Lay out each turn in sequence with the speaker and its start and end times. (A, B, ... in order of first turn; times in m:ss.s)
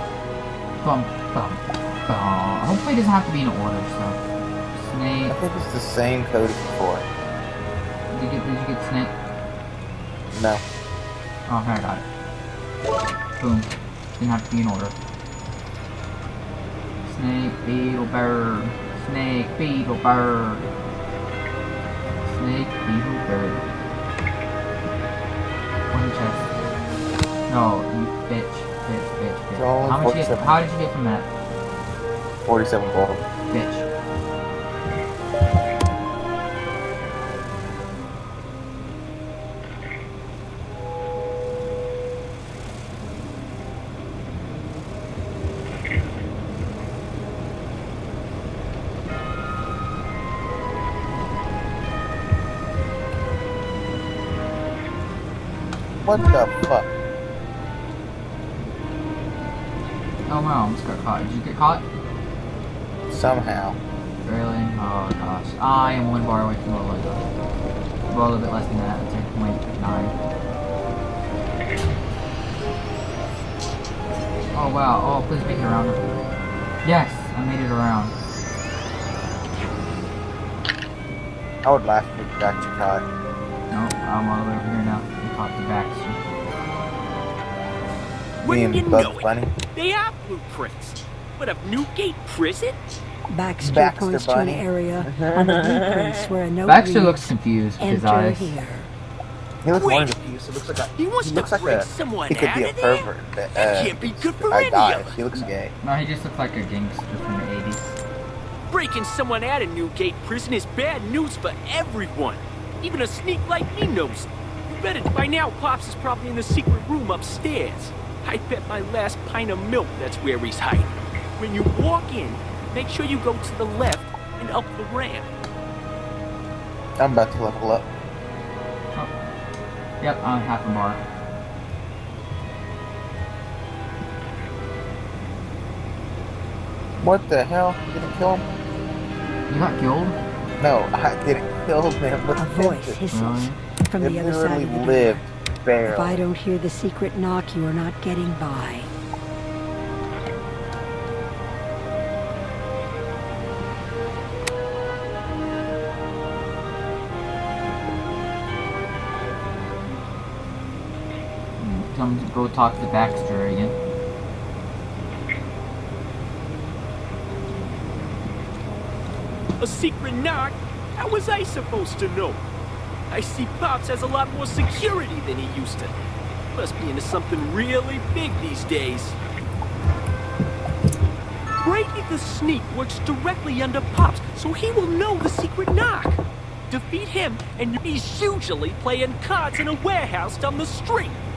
0:00.8-0:04.2 A
0:04.7-0:05.4 A
0:05.3-0:07.1 B
0:08.1-0:09.1 A
0:10.3-0:10.6 B
0:11.5-0:12.1 A
0:13.4-0:15.0 A
0:17.0-0:20.7 A
0:22.2-0:23.6 A
0:25.9-0:26.5 A
0:27.5-0:31.3 A
0:29.6-0:30.6 B
0:32.4-0:33.2 B
0:33.5-0:33.9 A
0:56.0-0:56.9 B
1:00.3-1:01.8 A
1:03.1-1:03.8 B
1:04.2-1:07.2 A
1:08.1-1:10.2 A
1:14.5-1:16.0 A
1:16.8-1:18.1 A
1:21.6-1:23.1 B
1:23.7-1:26.3 A
1:28.4-1:32.8 C
1:28.4-1:29.5 B
1:33.3-1:38.9 D
1:33.6-1:36.3 B
1:36.7-1:38.6 A
1:39.6-1:45.7 B
1:39.7-1:40.1 C
1:41.0-1:45.2 C
1:45.3-1:48.0 A
1:48.7-2:05.3 C
2:07.0-2:07.9 B
2:10.0-2:11.0 A
2:17.0-2:18.5 B
2:19.5-2:20.2 A
2:20.6-2:23.0 B
2:22.4-2:25.2 D
2:23.1-2:23.6 A
2:24.0-2:26.2 B
2:25.8-2:28.9 D
2:41.6-2:43.7 A
2:49.6-2:52.4 C
2:53.1-2:55.9 C
2:56.6-2:59.2 C
3:01.6-3:06.2 C
3:06.7-3:11.2 C